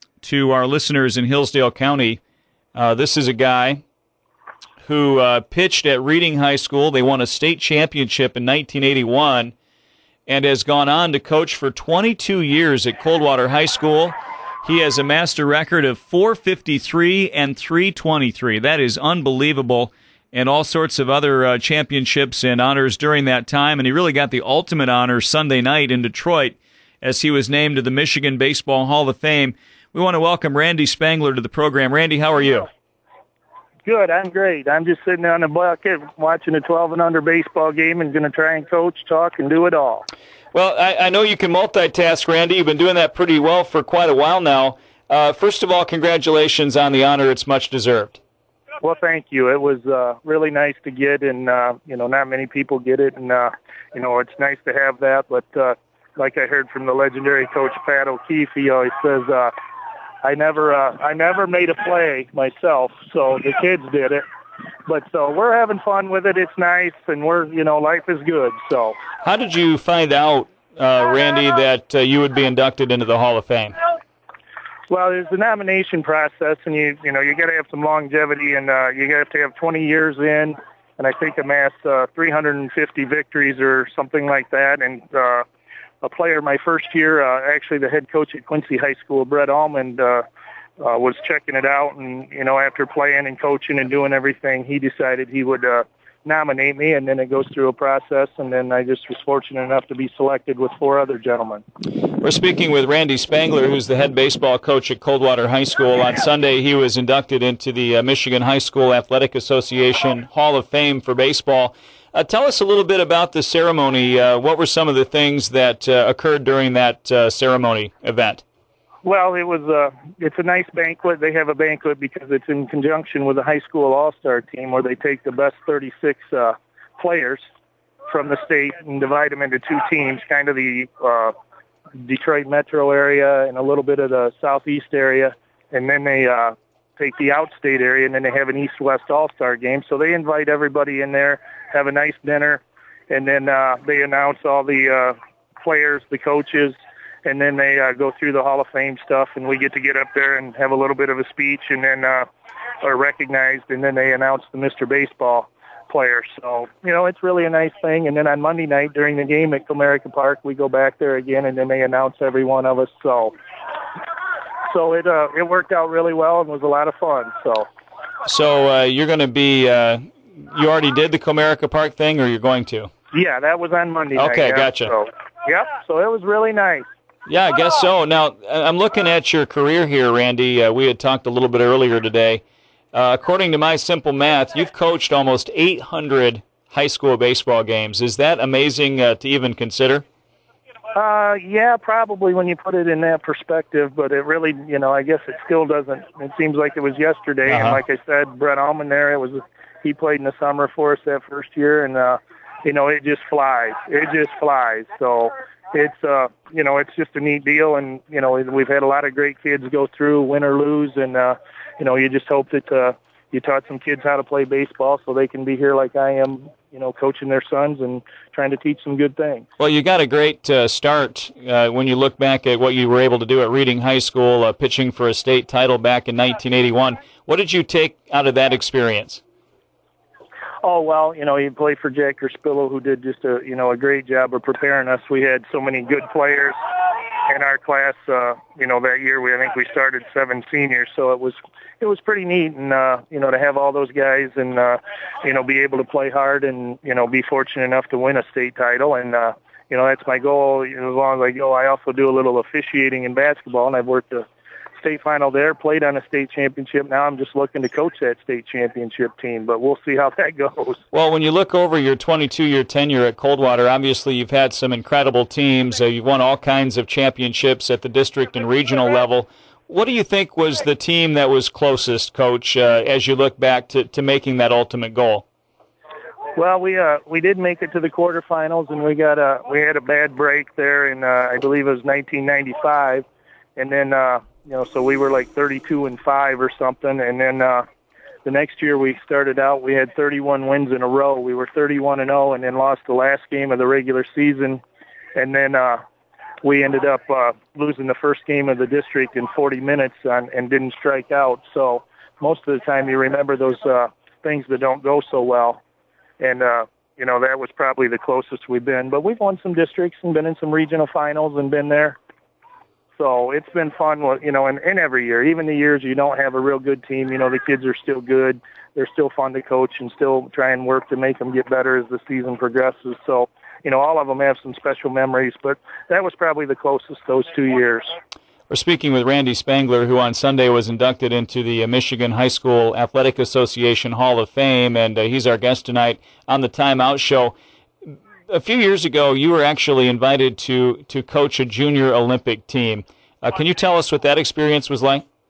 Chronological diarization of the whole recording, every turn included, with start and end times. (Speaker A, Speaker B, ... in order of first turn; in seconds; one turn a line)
Speaker A: 0.2-2.2
Speaker A: 2.7-3.8
Speaker A: 4.8-9.5
Speaker A: 10.3-32.7
Speaker B: 33.8-40.1
Speaker A: 40.5-48.2
Speaker B: 48.8-59.5
Speaker B: 60.2-64.2
Speaker B: 64.8-69.0
Speaker A: 69.2-73.7
Speaker B: 74.9-85.5
Speaker B: 86.0-90.2
Speaker B: 90.8-101.6
Speaker A: 102.2-118.4
Speaker B: 119.0-127.4
Speaker B: 128.1-131.3
Speaker B: 132.0-152.3
Speaker B: 152.8-163.3
Speaker B: 164.7-167.7
Speaker A: 168.2-172.9
Speaker B: 173.1-176.9
Speaker A: 174.2-174.9
Speaker A: 177.3-190.0
Speaker B: 190.9-219.4
Speaker A: 197.5-197.8
Speaker A: 219.6-229.2
Speaker B: 230.6-236.6
Speaker B: 237.2-254.3
Speaker B: 254.8-260.8
Speaker A: 260.9-275.2
Speaker B: 276.4-287.6
Speaker B: 288.2-294.6
Speaker B: 295.1-295.8
Speaker B: 296.4-305.6
Speaker B: 306.2-312.0
Speaker B: 312.9-327.9
Speaker A: 328.5-337.3
Speaker A: 338.3-345.0